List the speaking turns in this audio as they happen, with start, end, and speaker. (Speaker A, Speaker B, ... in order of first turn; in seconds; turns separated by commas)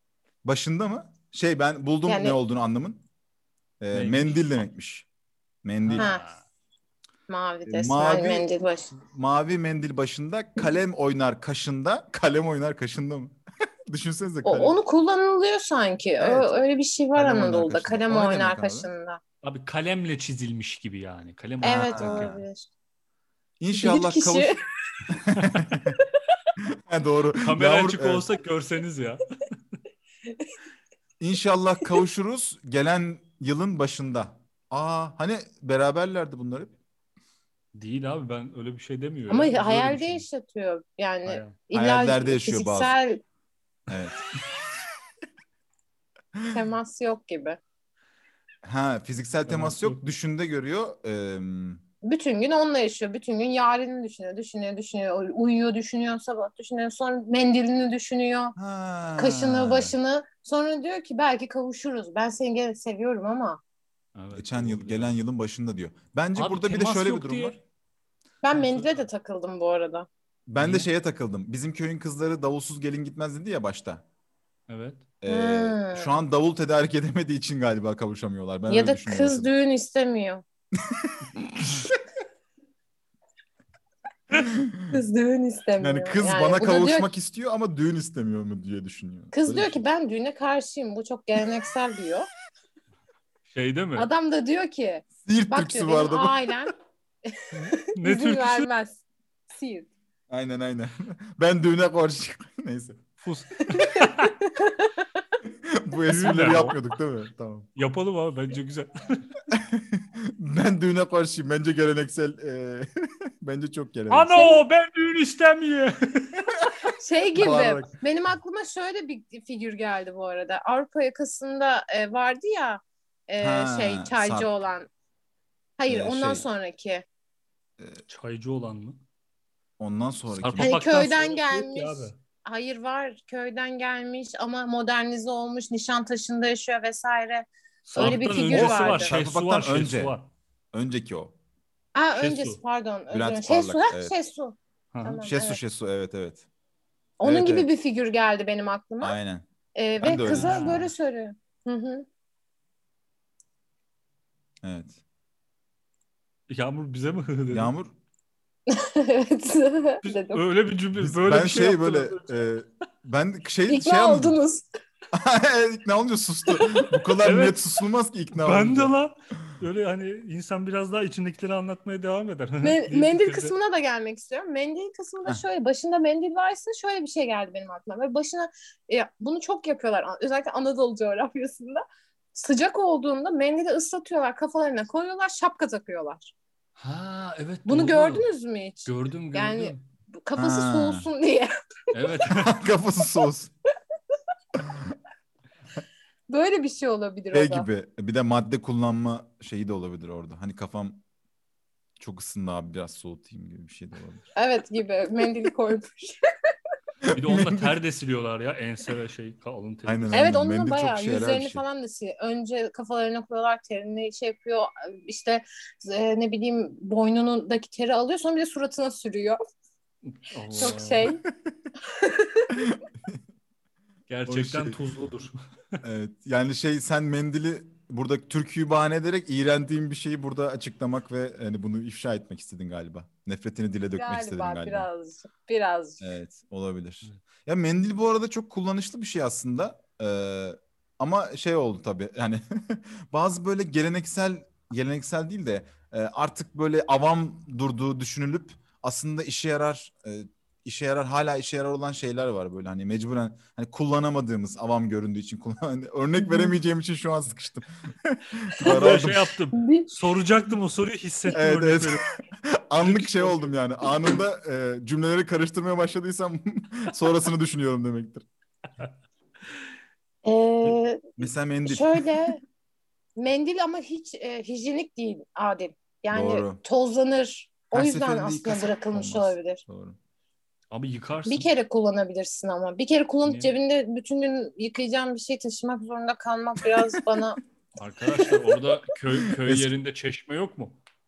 Speaker A: 0.4-3.0, Speaker B: 2.1-2.4, Speaker A: 3.8-5.1, Speaker C: 3.9-4.5, Speaker A: 5.6-6.1, Speaker C: 5.8-6.4, Speaker B: 6.0-6.2, Speaker B: 7.3-8.9, Speaker A: 7.7-8.5, Speaker A: 9.0-14.8, Speaker B: 14.4-19.2, Speaker A: 16.2-16.5, Speaker A: 17.1-18.9, Speaker C: 19.4-22.4, Speaker B: 21.6-22.7, Speaker A: 21.7-22.3, Speaker A: 23.6-24.6, Speaker B: 23.7-24.6, Speaker A: 25.1-26.0, Speaker C: 25.3-25.6, Speaker A: 26.6-28.3, Speaker C: 27.4-29.2, Speaker A: 31.2-36.7, Speaker C: 37.8-40.2, Speaker B: 39.3-43.2, Speaker C: 41.3-41.6, Speaker A: 41.7-43.0, Speaker A: 43.9-44.2, Speaker A: 46.4-46.6, Speaker B: 46.5-47.6, Speaker A: 48.6-51.8, Speaker C: 49.5-50.0, Speaker B: 52.0-58.6, Speaker A: 58.6-60.0, Speaker B: 59.2-63.6, Speaker C: 64.2-65.2, Speaker A: 64.3-67.6, Speaker C: 66.4-67.6, Speaker B: 68.4-70.1, Speaker C: 68.5-69.0, Speaker A: 70.5-74.0, Speaker C: 70.6-70.9, Speaker C: 74.7-75.0, Speaker A: 75.2-79.5, Speaker B: 75.3-76.2, Speaker B: 78.7-80.4, Speaker A: 80.8-81.9, Speaker A: 84.3-85.0, Speaker B: 84.9-87.1, Speaker A: 85.8-89.8, Speaker B: 89.3-92.3, Speaker C: 93.5-94.1, Speaker B: 94.0-96.7, Speaker A: 95.2-96.6, Speaker B: 97.3-99.9, Speaker C: 97.5-98.7, Speaker A: 100.3-103.0, Speaker C: 103.2-104.3, Speaker B: 103.7-105.0, Speaker A: 105.4-107.7, Speaker C: 106.1-106.8, Speaker C: 107.8-109.2, Speaker A: 109.5-112.9, Speaker A: 113.4-114.5, Speaker C: 114.1-116.5, Speaker B: 114.4-114.6, Speaker B: 117.0-124.9, Speaker A: 117.3-117.9, Speaker A: 123.4-124.5, Speaker B: 125.8-127.0, Speaker A: 125.9-126.4, Speaker C: 128.1-129.0, Speaker A: 129.8-130.7, Speaker C: 130.3-132.2, Speaker B: 130.6-139.1, Speaker C: 137.9-140.3, Speaker A: 138.0-140.1, Speaker A: 140.7-141.3, Speaker B: 141.9-145.6, Speaker C: 142.2-142.6, Speaker A: 143.1-144.1, Speaker C: 144.9-145.2, Speaker A: 145.2-146.5, Speaker B: 147.2-149.2, Speaker A: 147.2-147.7, Speaker A: 149.0-149.5, Speaker B: 149.8-152.1, Speaker A: 150.0-150.9, Speaker C: 150.3-150.9, Speaker A: 154.6-155.0, Speaker C: 156.5-157.7, Speaker A: 157.5-157.9, Speaker B: 158.7-160.4, Speaker C: 160.0-162.4, Speaker A: 161.0-164.4, Speaker B: 163.7-164.7, Speaker A: 165.1-168.9, Speaker B: 166.6-166.9, Speaker C: 167.2-167.6, Speaker C: 168.4-173.6, Speaker B: 172.6-186.3, Speaker C: 186.8-188.3, Speaker B: 187.7-191.5, Speaker C: 188.9-189.8, Speaker A: 190.4-191.1, Speaker C: 191.9-192.6, Speaker A: 192.3-193.5, Speaker A: 194.6-194.9, Speaker B: 196.3-197.7, Speaker A: 197.3-201.0, Speaker A: 202.0-204.3, Speaker B: 204.4-206.2, Speaker A: 207.0-207.7, Speaker C: 207.1-210.4, Speaker A: 209.8-211.6, Speaker B: 210.1-219.4, Speaker C: 220.1-221.1, Speaker B: 220.5-221.2, Speaker B: 221.9-222.6, Speaker A: 222.5-223.2, Speaker C: 224.1-225.8, Speaker A: 224.3-224.8, Speaker A: 225.8-234.9, Speaker B: 234.0-236.2, Speaker A: 236.0-259.3, Speaker B: 256.2-256.5, Speaker C: 258.6-262.1, Speaker B: 259.6-259.9, Speaker A: 261.3-268.2, Speaker C: 262.8-263.6, Speaker B: 270.2-272.4, Speaker A: 271.2-272.2, Speaker B: 273.2-279.6, Speaker A: 276.1-276.6, Speaker A: 277.7-280.0, Speaker C: 280.7-281.5, Speaker B: 281.3-287.4, Speaker C: 283.2-283.5, Speaker C: 287.8-290.8, Speaker A: 289.3-289.7